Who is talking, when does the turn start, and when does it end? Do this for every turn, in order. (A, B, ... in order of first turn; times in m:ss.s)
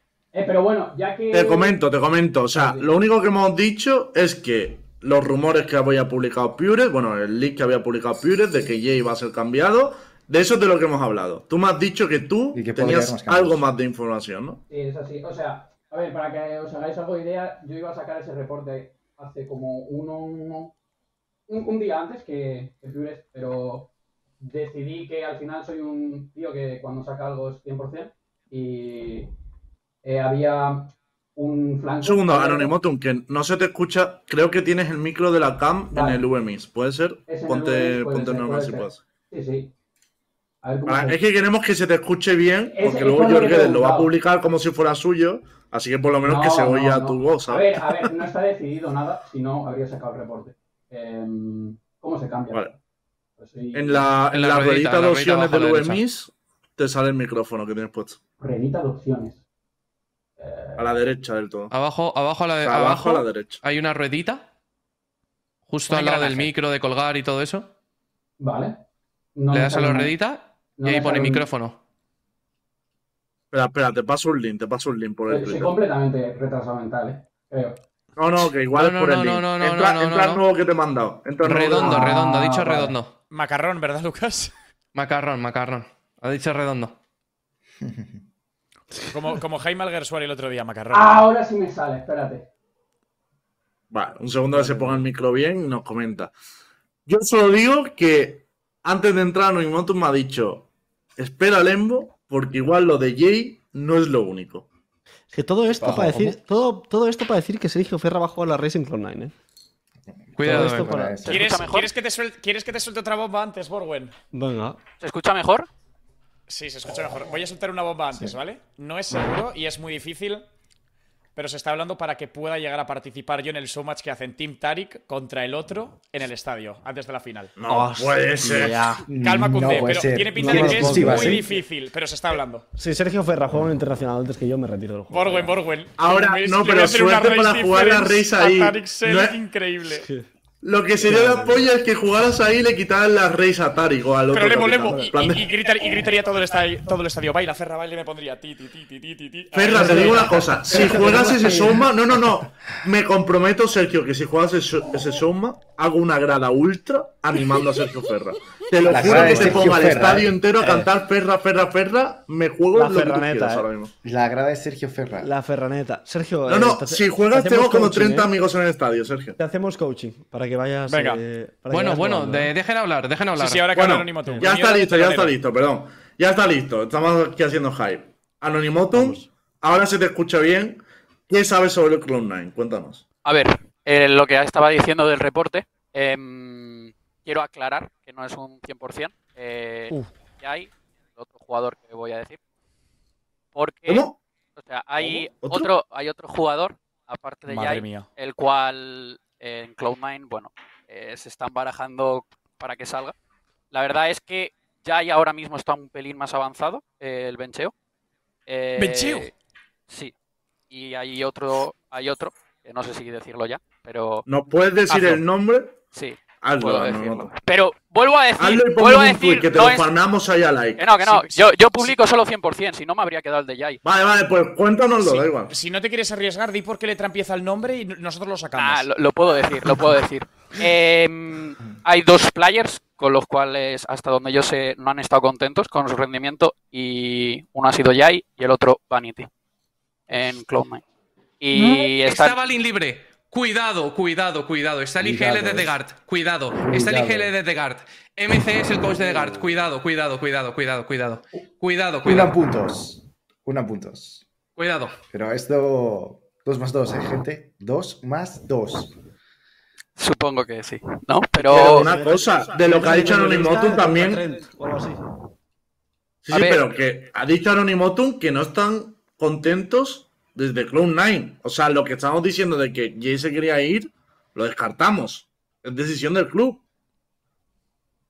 0:00.3-0:01.8 A
0:01.3-0:14.6 B
0:02.5-0:02.9 A
0:12.5-0:13.7 C
0:14.7-0:20.7 A
0:21.5-0:29.3 A
0:30.0-0:32.7 A
0:32.0-0:39.0 B
0:35.9-0:36.2 A
0:37.2-0:39.7 A
0:40.6-0:41.2 A
0:40.8-0:48.3 B
0:42.7-0:44.1 A
0:46.2-0:52.7 A
0:53.4-0:54.2 A
0:53.7-0:58.2 B
0:54.3-0:56.0 D
0:58.4-0:59.4 A
1:00.4-1:01.0 A
1:00.8-1:01.7 B
1:01.7-1:04.5 D
1:02.6-1:03.6 B
1:05.7-1:07.7 D
1:05.9-1:06.5 E
1:08.4-1:08.8 A
1:09.4-1:10.2 A
1:09.5-1:11.8 D
1:10.8-1:11.5 A
1:13.5-1:15.8 B
1:15.3-1:17.8 A
1:18.2-1:22.1 B
1:18.7-1:20.4 D
1:21.4-1:23.1 D
1:21.8-1:22.9 A
1:23.3-1:24.5 E
1:24.9-1:27.0 D
1:27.8-1:28.2 C
1:29.1-1:31.3 E
1:30.9-1:32.5 A
1:33.9-1:36.3 B
1:37.0-1:44.7 B
1:45.3-1:49.3 F
1:45.8-1:46.4 C
1:50.1-1:51.6 C
1:50.4-1:51.1 D
1:50.4-1:51.2 F
1:51.2-1:51.9 G
1:51.2-1:54.1 E
1:54.3-1:54.8 F
1:55.0-1:55.7 G
1:56.5-2:00.4 E
2:01.4-2:07.6 E
2:07.6-2:09.0 B
2:07.7-2:09.0 F
2:09.1-2:11.5 C
2:09.1-2:12.6 E
2:10.4-2:11.5 F
2:12.7-2:15.5 F
2:15.1-2:20.0 E
2:16.0-2:19.4 B
2:20.0-2:20.3 F
2:20.6-2:25.5 B
2:21.0-2:21.6 F
2:24.3-2:30.6 E
2:29.5-2:43.9 B
2:29.8-2:30.1 F
2:30.7-2:31.8 F
2:38.9-2:40.4 C
2:39.1-2:39.8 F
2:40.6-2:40.9 F
2:42.7-2:43.7 F
2:44.0-2:45.3 C
2:45.2-2:48.3 F
2:46.5-2:49.4 B
2:49.4-2:52.5 F
2:50.9-2:51.2 E
2:51.7-2:53.7 D
2:53.4-2:55.3 E
2:53.7-3:03.0 B
2:58.9-2:59.3 F
3:03.2-3:12.4 G
3:13.5-3:14.0 G
3:13.9-3:14.2 B
3:14.6-3:23.1 G
3:15.0-3:15.7 B
3:17.5-3:18.1 E
3:23.7-3:27.7 G
3:28.5-3:29.3 G
3:28.8-3:29.3 E
3:30.7-3:34.2 G
3:34.3-3:35.8 B
3:34.9-3:35.2 G
3:35.9-3:39.9 G
3:36.4-3:37.3 B
3:38.4-3:41.2 B
3:40.8-3:43.8 G
3:43.8-3:45.5 B
3:45.5-3:48.9 E
3:48.6-3:59.3 G
4:00.1-4:00.8 G
4:01.4-4:02.4 G
4:01.5-4:12.4 D
4:05.0-4:05.8 C
4:06.5-4:07.3 C
4:12.0-4:14.3 C
4:14.6-4:14.9 D
4:15.1-4:18.9 C
4:20.0-4:21.9 G
4:21.4-4:24.2 B
4:21.5-4:25.0 F
4:26.2-4:36.6 B
4:26.3-4:26.7 G